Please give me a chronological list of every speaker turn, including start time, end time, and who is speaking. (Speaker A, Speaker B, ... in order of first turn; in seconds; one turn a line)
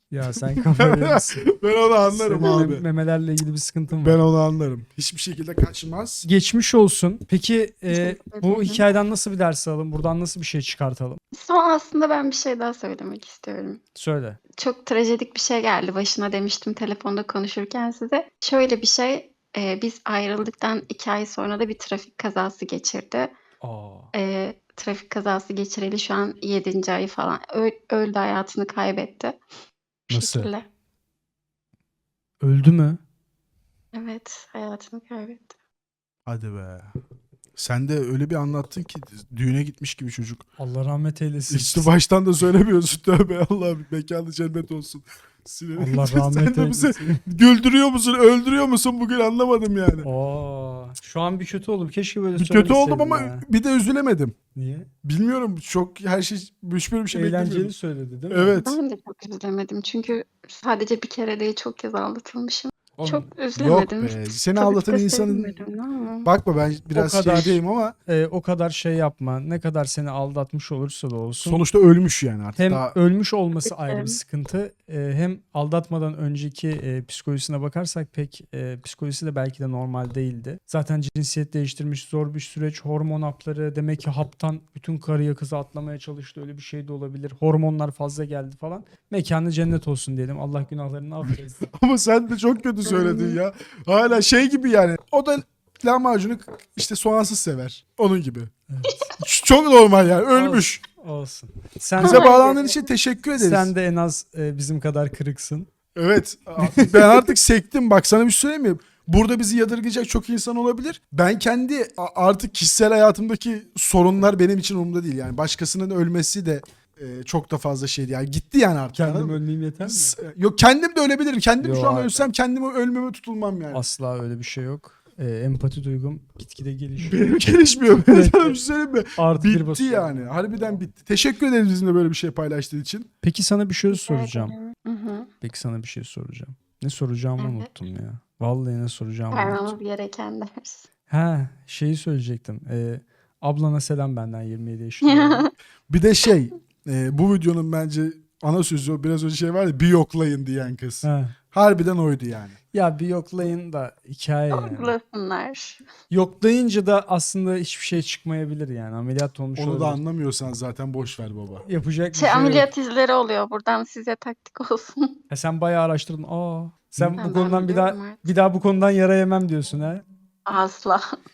Speaker A: 0.1-1.4
Speaker B: 0.3-2.8
Speaker A: 2.1-4.2
Speaker B: 3.9-6.3
Speaker A: 6.2-11.2
Speaker C: 7.9-8.8
Speaker C: 11.3-13.8
Speaker A: 13.9-14.4
Speaker C: 14.6-23.3
Speaker A: 23.6-24.1
Speaker C: 24.1-29.4
Speaker C: 30.1-30.6
Speaker A: 30.1-30.5
Speaker A: 32.4-33.0
Speaker C: 33.9-35.5
Speaker B: 36.3-36.9
Speaker B: 37.6-40.5
Speaker A: 40.6-41.9
Speaker B: 41.5-50.1
Speaker A: 45.8-47.2
Speaker A: 50.0-53.5
Speaker B: 52.4-54.4
Speaker A: 54.5-54.9
Speaker B: 55.0-57.7
Speaker A: 57.1-58.6
Speaker B: 58.3-58.8
Speaker C: 58.6-66.3
Speaker A: 63.0-63.3
Speaker B: 63.6-65.6
Speaker B: 66.2-68.0
Speaker A: 67.0-71.6
Speaker B: 71.4-72.9
Speaker A: 72.6-91.7
Speaker C: 73.7-74.2
Speaker B: 91.3-98.5
Speaker C: 92.8-93.4
Speaker A: 98.7-99.1
Speaker B: 99.2-100.8
Speaker A: 100.3-102.4
Speaker C: 102.0-102.8
Speaker B: 102.0-103.7
Speaker A: 103.4-105.7
Speaker B: 106.0-123.8
Speaker A: 106.6-107.3
Speaker A: 118.9-120.2
Speaker A: 121.6-122.3
Speaker A: 123.7-127.2
Speaker B: 127.0-133.1
Speaker A: 127.9-128.6
Speaker A: 129.2-130.8
Speaker A: 133.2-134.6
Speaker C: 133.9-135.3
Speaker A: 135.4-139.7
Speaker C: 137.4-137.7
Speaker C: 139.3-140.9
Speaker A: 141.1-145.5
Speaker C: 145.0-145.5
Speaker B: 145.9-152.6
Speaker A: 151.0-151.4
Speaker A: 152.7-154.9
Speaker C: 154.5-155.8
Speaker A: 156.1-160.0
Speaker B: 159.6-161.7
Speaker A: 161.7-162.7
Speaker C: 162.2-165.2
Speaker A: 165.3-170.0
Speaker C: 167.2-168.3
Speaker C: 170.5-171.1